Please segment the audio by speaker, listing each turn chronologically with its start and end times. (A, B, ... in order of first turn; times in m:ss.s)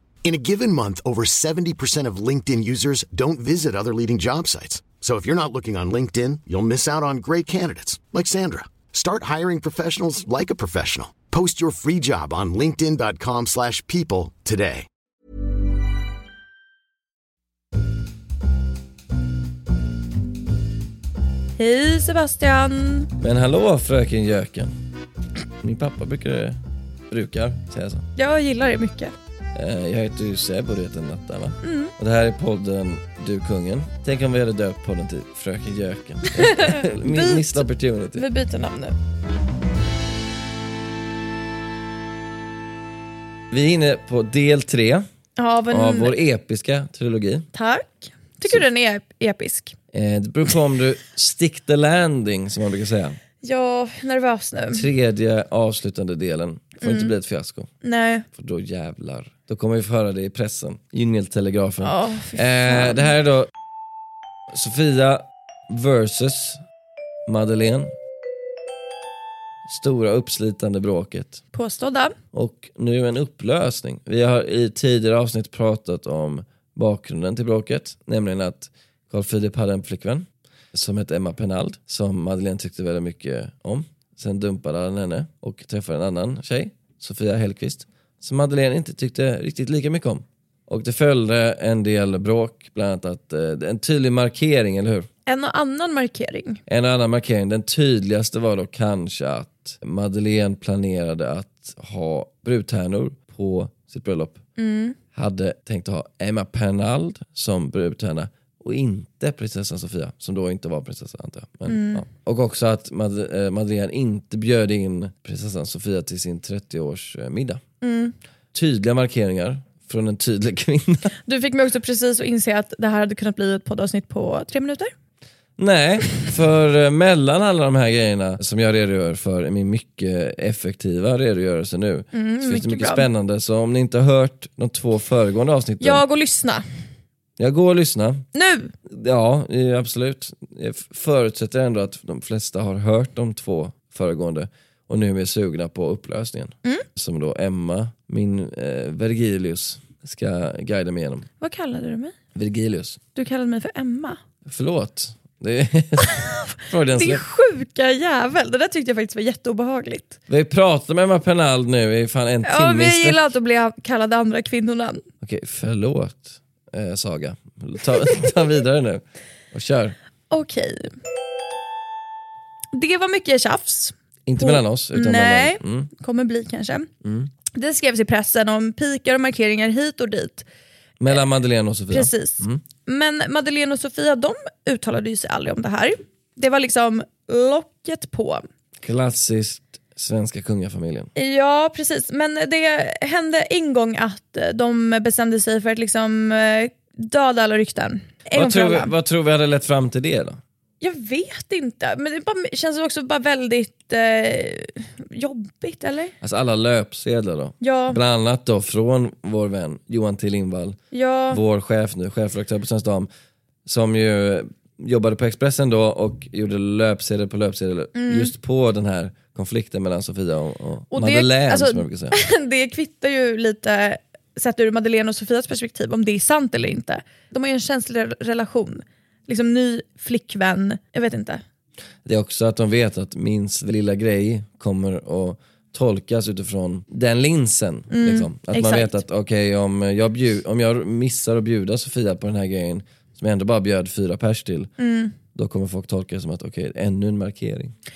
0:00.2-0:14.9 A
0:21.6-0:23.1 B
0:23.2-0:24.7 C
0:25.6-0:26.6 C
0:27.1-0:28.1 C
0:28.2-0:29.1 B
0:29.6-0:38.2 C
0:31.6-0:31.9 B
0:36.3-0:39.0 B
0:43.5-0:45.1 C
0:45.4-0:46.2 B
0:45.7-0:47.5 C
0:47.5-0:49.8 B
0:49.9-0:53.2 C
0:53.4-0:54.9 B
0:54.7-0:57.7 C
0:56.8-0:57.1 B
0:57.8-0:58.2 B
0:58.3-1:03.5 C
1:01.8-1:03.1 B
1:04.5-1:06.6 C
1:07.3-1:07.9 C
1:09.7-1:11.4 C
1:11.5-1:12.2 B
1:12.3-1:35.1 C
1:35.3-1:36.6 B
1:36.7-1:44.4 C
1:44.6-1:45.0 B
1:45.1-1:57.6 C
1:51.7-1:52.0 B
1:57.8-1:58.2 B
1:58.5-2:01.2 C
2:01.3-2:04.9 B
2:05.6-2:16.0 C
2:12.1-2:13.1 B
2:15.8-2:16.6 B
2:17.4-2:18.2 C
2:18.3-2:18.7 B
2:18.9-2:31.3 C
2:31.4-2:32.2 B
2:32.4-2:33.0 C
2:33.2-2:34.2 B
2:34.5-2:37.2 C
2:36.0-2:40.2 B
2:40.3-2:43.2 C
2:42.4-2:45.0 B
2:45.2-2:50.0 C
2:50.3-2:51.0 B
2:52.7-2:56.9 B
2:54.3-2:55.9 C
2:57.0-2:57.3 C
2:57.5-3:00.5 B
3:01.0-3:02.6 C
3:01.9-3:08.4 B
3:08.8-3:11.1 C
3:11.2-3:18.9 B
3:18.4-3:20.4 C
3:20.8-3:26.1 B
3:26.2-3:30.8 C
3:27.6-3:28.0 B
3:30.9-3:31.4 B
3:31.3-3:33.1 C
3:33.7-3:42.2 C
3:38.0-3:38.3 B
3:40.9-3:51.4 B
3:52.0-4:04.7 C
3:57.9-3:58.9 B
4:04.8-4:05.2 B
4:05.4-4:07.7 C